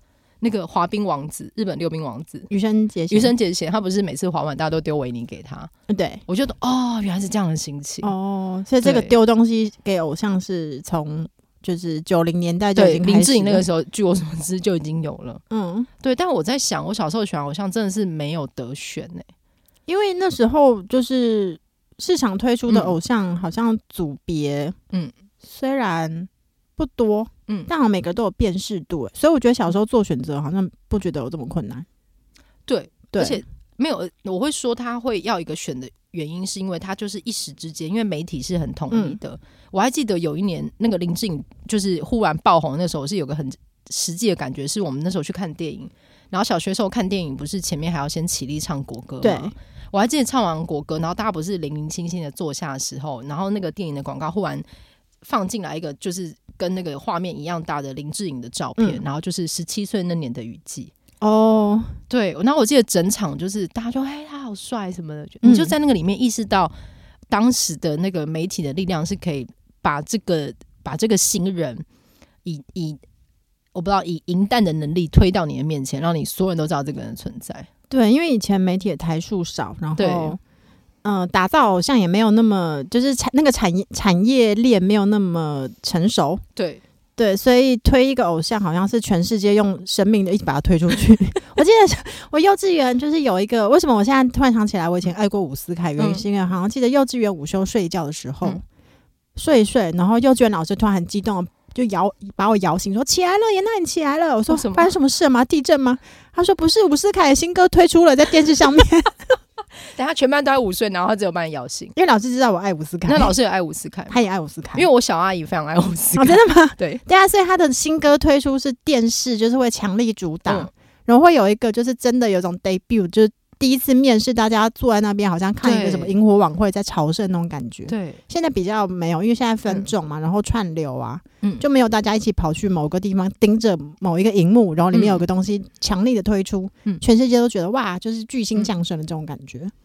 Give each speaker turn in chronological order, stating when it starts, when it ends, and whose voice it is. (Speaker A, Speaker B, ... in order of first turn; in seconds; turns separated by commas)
Speaker A: 0.4-2.5, Speaker B: 2.5-3.3, Speaker A: 3.1-5.7, Speaker B: 5.9-6.2, Speaker A: 6.2-8.1, Speaker B: 8.0-13.6, Speaker A: 8.8-9.1, Speaker A: 12.8-15.4, Speaker B: 15.5-15.9, Speaker A: 16.0-19.3, Speaker B: 19.9-24.8, Speaker A: 22.7-22.9, Speaker B: 25.4-31.9, Speaker A: 32.7-54.6, Speaker B: 33.1-33.4, Speaker B: 38.9-39.2, Speaker B: 49.2-49.5, Speaker A: 55.2-60.9, Speaker B: 61.2-62.0, Speaker A: 62.1-66.7, Speaker B: 65.4-65.7, Speaker A: 67.3-71.8, Speaker A: 72.4-73.0, Speaker A: 73.7-77.7, Speaker B: 77.9-80.4, Speaker A: 80.0-80.4, Speaker B: 81.0-86.4, Speaker A: 86.5-86.8, Speaker B: 87.2-98.6, Speaker A: 96.0-96.2, Speaker B: 99.3-109.2, Speaker A: 104.5-104.9, Speaker A: 109.9-111.9, Speaker B: 111.9-113.3, Speaker A: 113.0-114.2, Speaker B: 114.1-114.9, Speaker A: 114.7-117.0, Speaker B: 116.2-139.7, Speaker A: 125.6-126.1, Speaker A: 127.9-128.2, Speaker A: 134.9-135.2